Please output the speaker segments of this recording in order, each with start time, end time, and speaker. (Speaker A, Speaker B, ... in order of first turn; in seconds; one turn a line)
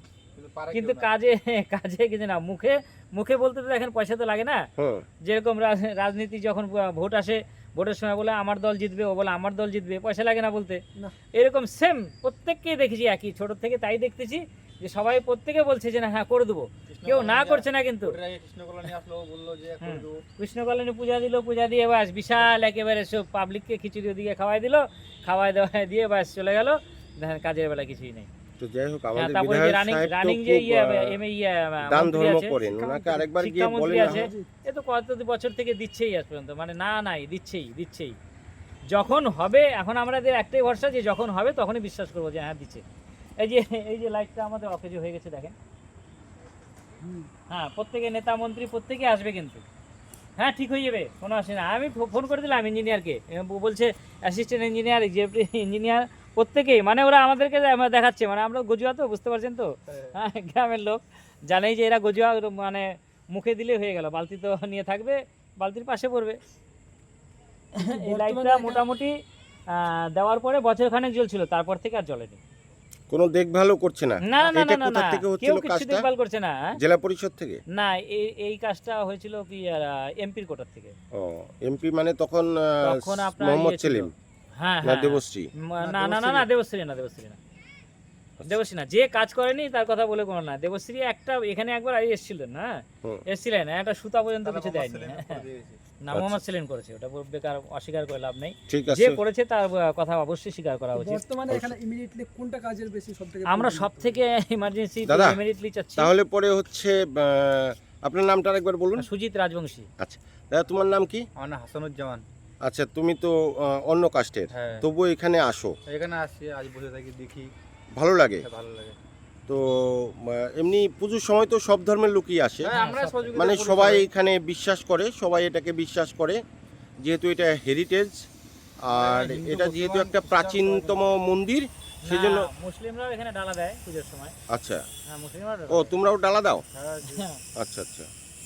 Speaker A: 0.4-1.1
Speaker B: 0.7-4.7
Speaker C: 4.8-5.0
Speaker B: 5.2-10.8
Speaker B: 11.3-18.2
Speaker A: 18.2-19.8
Speaker D: 19.8-20.1
Speaker B: 19.8-28.3
Speaker C: 28.6-31.2
Speaker B: 29.1-32.6
Speaker C: 31.8-34.3
Speaker D: 32.6-33.3
Speaker B: 33.4-38.1
Speaker D: 33.8-34.5
Speaker B: 38.9-42.8
Speaker B: 43.4-45.5
Speaker D: 47.0-47.3
Speaker B: 47.5-49.6
Speaker B: 50.4-66.4
Speaker D: 67.8-68.8
Speaker B: 67.8-69.1
Speaker B: 69.7-72.4
Speaker C: 73.1-76.1
Speaker B: 74.2-76.7
Speaker C: 76.8-77.6
Speaker B: 77.7-81.0
Speaker C: 81.1-84.1
Speaker B: 82.8-87.4
Speaker C: 84.8-85.5
Speaker D: 85.8-86.4
Speaker B: 88.4-92.7
Speaker B: 93.3-95.4
Speaker D: 94.5-95.6
Speaker B: 96.0-101.2
Speaker C: 96.1-96.4
Speaker C: 98.7-99.2
Speaker D: 100.9-104.2
Speaker B: 103.5-106.1
Speaker C: 105.1-105.4
Speaker C: 106.0-109.1
Speaker B: 109.0-109.9
Speaker C: 110.0-111.2
Speaker A: 111.4-112.2
Speaker C: 112.6-115.7
Speaker A: 114.5-114.8
Speaker A: 115.9-117.5
Speaker C: 118.0-118.4
Speaker A: 118.4-119.0
Speaker C: 119.5-122.8
Speaker B: 122.6-123.4
Speaker A: 122.6-124.0
Speaker C: 123.3-126.4
Speaker C: 127.0-128.2
Speaker C: 128.8-132.5
Speaker D: 128.9-131.0
Speaker B: 132.0-134.3
Speaker C: 134.5-134.8
Speaker B: 135.1-135.9
Speaker C: 135.7-136.6
Speaker D: 136.8-137.1
Speaker B: 137.0-137.4
Speaker C: 137.6-138.1